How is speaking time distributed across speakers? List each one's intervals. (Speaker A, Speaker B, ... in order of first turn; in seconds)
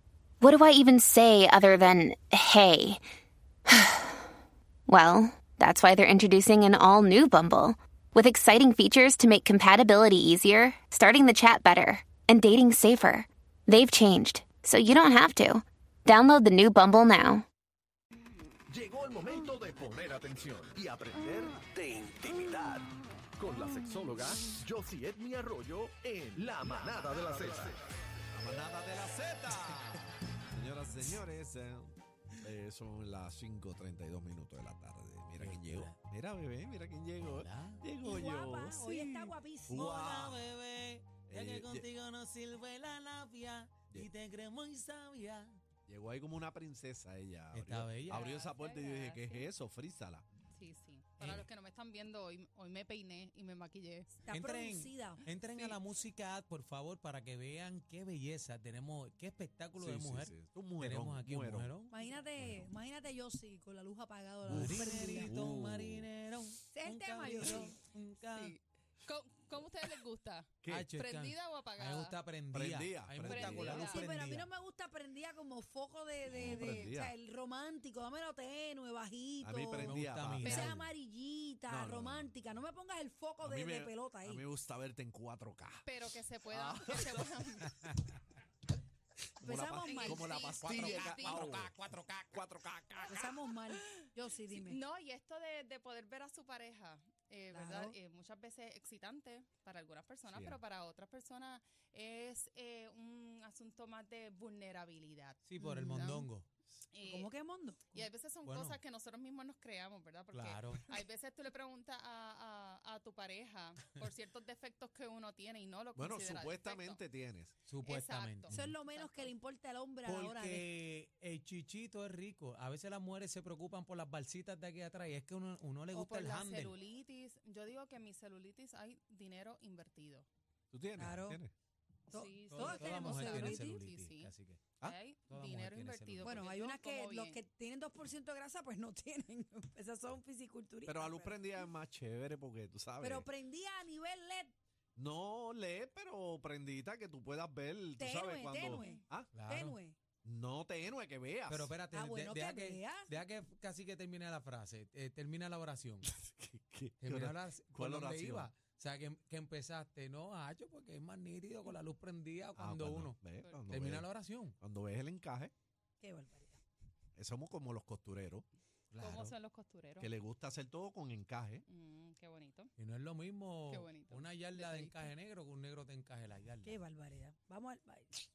Speaker A: 0.4-3.0, 3.7-4.2, 4.9-17.4
Speaker B: 18.7-27.8
Speaker C: 26.7-27.7, 28.3-40.5, 41.3-41.9, 45.9-50.3, 59.8-61.7, 64.5-66.1, 70.6-70.9, 72.5-73.9, 76.3-77.2, 79.4-80.9, 81.7-82.4, 83.4-85.9, 86.5-87.3, 89.4-91.8, 92.3-93.2, 100.3-100.6, 116.0-117.6, 130.7-131.5, 140.9-143.3, 145.0-149.3, 150.2-151.7, 156.1-158.5, 162.6-164.1, 164.6-165.5, 167.2-168.5, 169.0-169.3, 170.0-171.6
Speaker D: 35.4-36.0, 37.4-37.8, 39.8-45.6, 47.5-48.3, 54.3-61.9, 64.5-68.5, 70.7-74.5, 79.8-80.9, 90.6-92.5, 105.5-106.5, 108.4-108.8, 110.3-110.8, 117.7-118.8, 120.1-126.7, 132.5-134.7, 135.3-136.3, 149.3-149.8, 151.5-156.1, 157.0-163.2, 163.7-164.6, 168.9-169.3, 172.8-176.8
Speaker E: 38.0-40.0, 54.3-55.2, 61.9-65.3, 66.7-67.8, 73.7-84.5, 89.4-90.4, 93.1-94.8, 97.5-98.0, 105.6-106.2, 107.0-108.1, 118.5-120.7, 131.0-131.4, 132.1-133.8, 136.2-141.5, 143.0-144.5, 148.0-150.0, 151.9-153.2, 166.0-166.6, 176.7-178.1
Speaker F: 48.1-49.5, 50.5-54.2, 68.3-72.2, 73.3-74.1, 85.8-87.7, 89.8-91.7, 94.5-106.3, 106.9-107.3, 108.0-117.0, 117.8-119.3, 125.9-130.3, 132.1-134.3, 134.8-137.4, 169.0-170.1, 171.7-172.7, 173.7-175.1